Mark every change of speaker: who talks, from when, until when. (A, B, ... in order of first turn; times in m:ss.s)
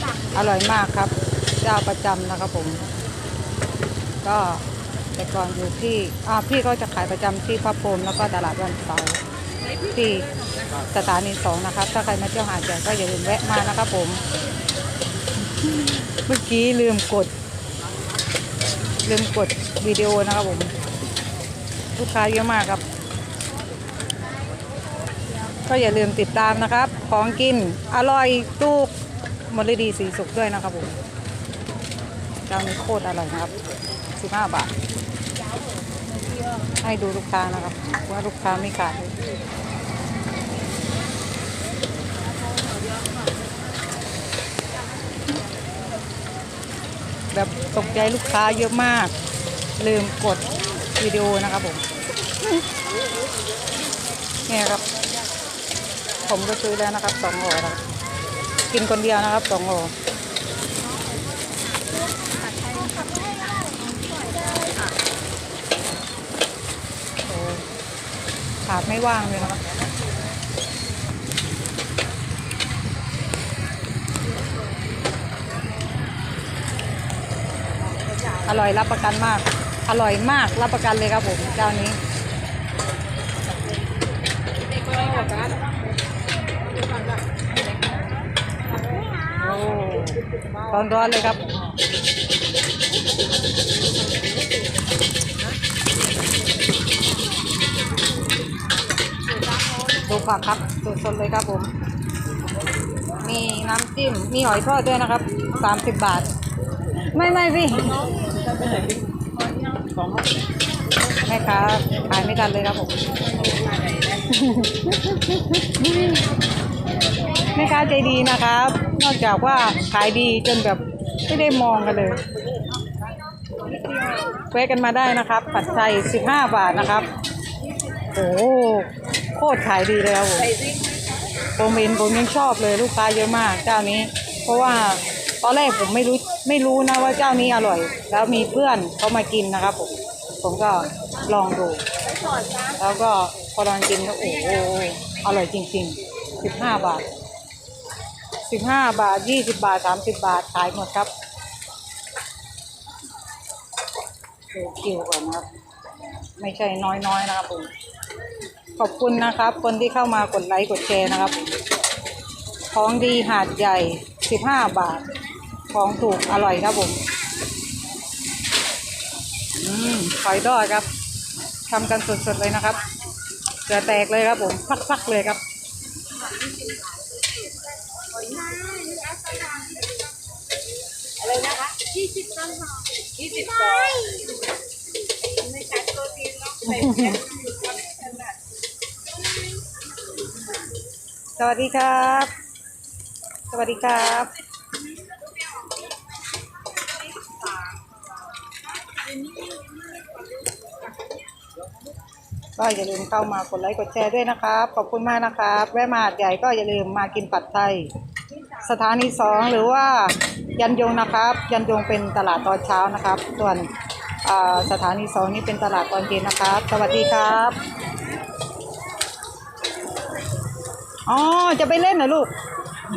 0:00.3-0:02.8 A
0:04.2-0:04.6 A
0:05.2-0:09.2 A
0:09.8-0:10.3 A
0:10.9-0:14.2 A
0:15.6-0:17.3 A
0:19.0-0:20.7 A
0:22.0-0:22.8 A
0:25.7-0:28.9 A
0:29.5-0:31.0 A
0:32.5-0:33.6 A
0:34.2-0:34.7 A
0:36.8-0:39.2 A
0:47.3-0:49.1 A
0:49.8-0:51.8 A
0:54.5-0:54.8 A
0:56.2-0:57.8 A
0:58.7-0:59.9 A
1:02.4-1:04.9 B
1:07.3-1:07.6 A
1:08.7-1:09.7 A
1:18.4-1:22.0 A
1:24.8-1:25.7 B
1:29.3-1:31.6 A
1:40.0-1:41.7 A
1:43.2-1:46.3 A
1:47.1-1:48.2 A
1:51.2-1:53.0 A
1:54.1-1:56.2 A
1:57.5-2:02.2 A
2:04.4-2:07.1 A
2:08.1-2:10.6 A
2:11.6-2:21.8 A
2:22.8-2:27.1 A
2:28.4-2:31.1 A
2:34.5-2:35.5 A
2:36.4-2:37.7 A
2:38.8-2:41.5 A
2:42.7-2:45.1 A
2:45.7-2:47.0 A
2:49.6-2:50.9 A
2:51.7-2:52.9 A
2:53.7-2:55.4 A
2:58.1-3:00.1 B
3:01.2-3:04.4 B
3:05.2-3:08.3 B
3:06.6-3:07.2 A
3:11.4-3:12.3 A
3:13.5-3:14.3 A
3:19.1-3:20.6 B
3:22.6-3:27.9 A
3:28.6-3:33.7 A
3:34.2-3:37.6 A
3:41.1-3:42.3 A